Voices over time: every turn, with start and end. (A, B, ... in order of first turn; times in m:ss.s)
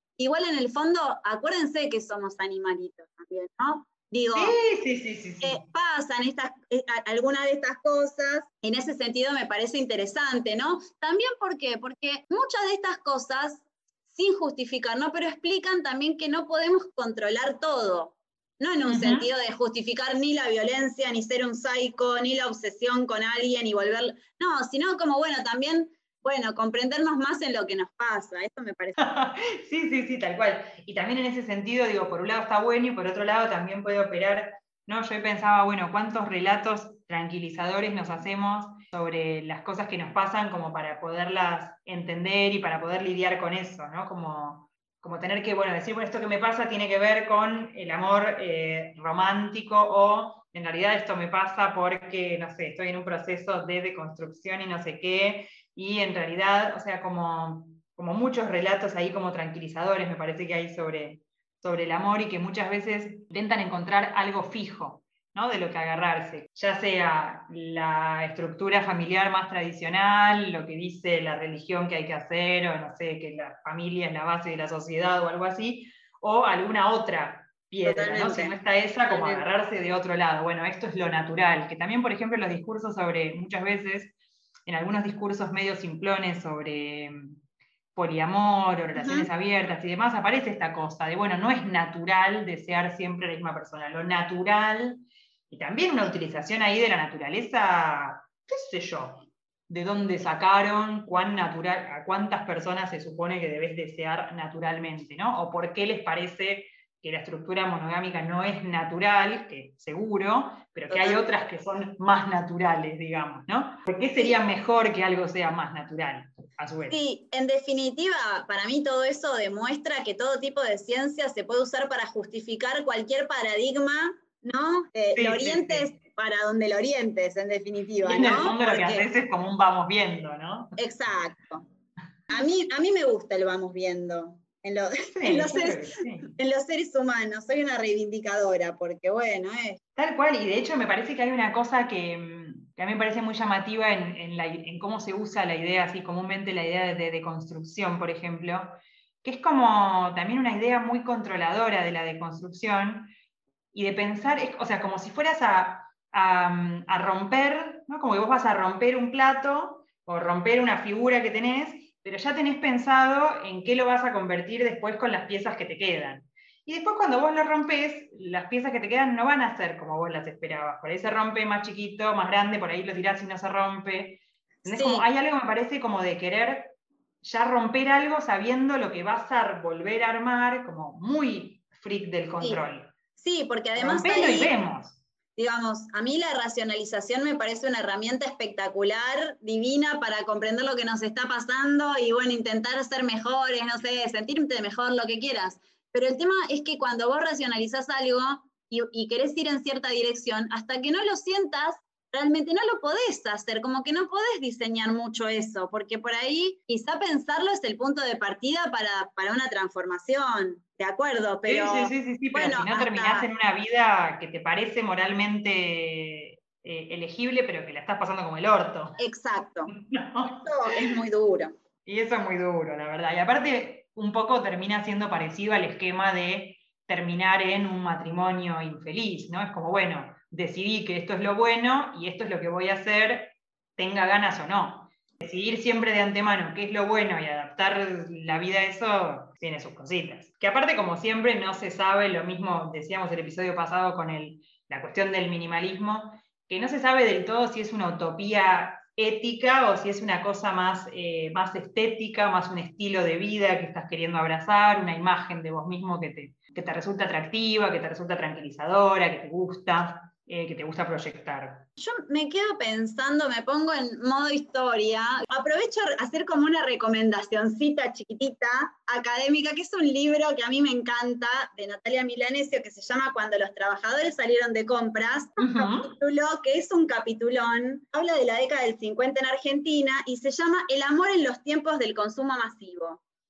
0:00.2-0:04.6 A
0:04.4-0:05.6 B
0:05.4-0:29.0 A
0:18.8-0:19.3 B
0:29.0-1:24.1 B
1:17.8-1:18.5 A
1:19.1-1:19.4 A
1:24.7-1:27.4 B
1:28.0-1:57.0 B
1:29.0-1:29.3 A
1:50.9-1:51.2 A
1:56.9-2:09.1 A
2:05.2-2:05.9 B
2:08.0-2:10.8 B
2:10.8-2:11.6 A
2:12.3-2:19.8 A
2:15.1-2:16.3 B
2:20.0-2:33.1 B
2:33.7-3:02.9 B
2:54.6-2:55.1 A
3:03.2-3:04.5 A
3:03.8-3:05.0 B
3:05.4-3:33.3 A
3:31.5-3:39.0 B
3:39.0-3:39.7 A
3:39.7-3:40.9 B
3:40.2-3:41.5 A
3:41.9-4:21.7 B
4:21.8-4:43.0 A
4:35.4-4:35.9 B